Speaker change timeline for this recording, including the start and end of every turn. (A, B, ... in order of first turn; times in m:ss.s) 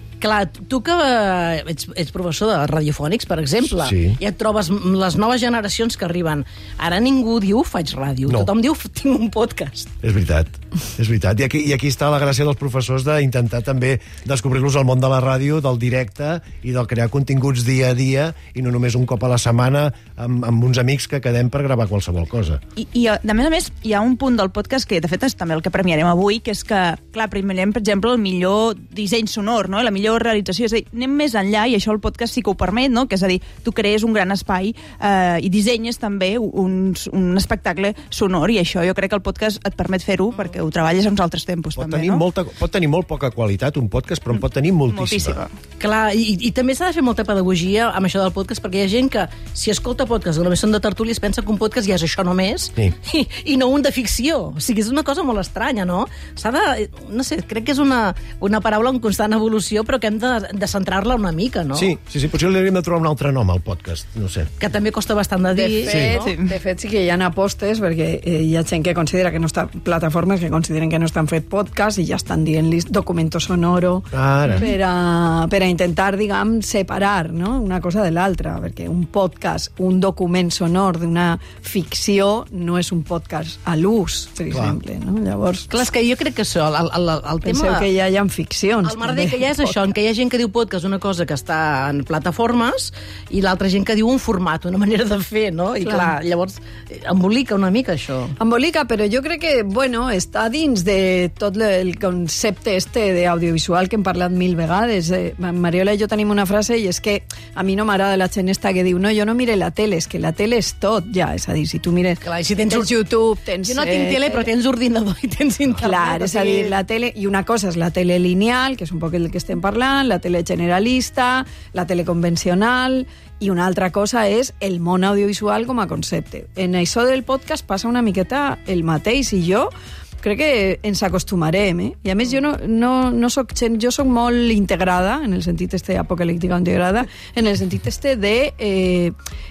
0:00.2-0:09.9 A
0:03.8-0:04.2 B
0:10.0-0:22.6 B
0:22.8-0:42.3 C
0:41.8-0:45.4 B
0:44.9-0:45.5 C
0:45.8-1:01.9 A
1:01.8-1:04.5 B
1:04.6-1:06.3 A
1:05.5-1:25.7 D
1:05.9-1:06.2 B
1:06.2-1:06.5 C
1:14.1-1:14.7 B
1:24.5-1:24.8 B
1:25.7-1:27.9 A
1:27.4-1:29.8 D
1:28.8-1:38.4 A
1:35.8-1:36.2 D
1:38.4-1:54.5 D
1:52.2-1:53.1 A
1:53.6-1:56.8 A
1:55.8-2:09.7 D
2:10.2-2:19.1 D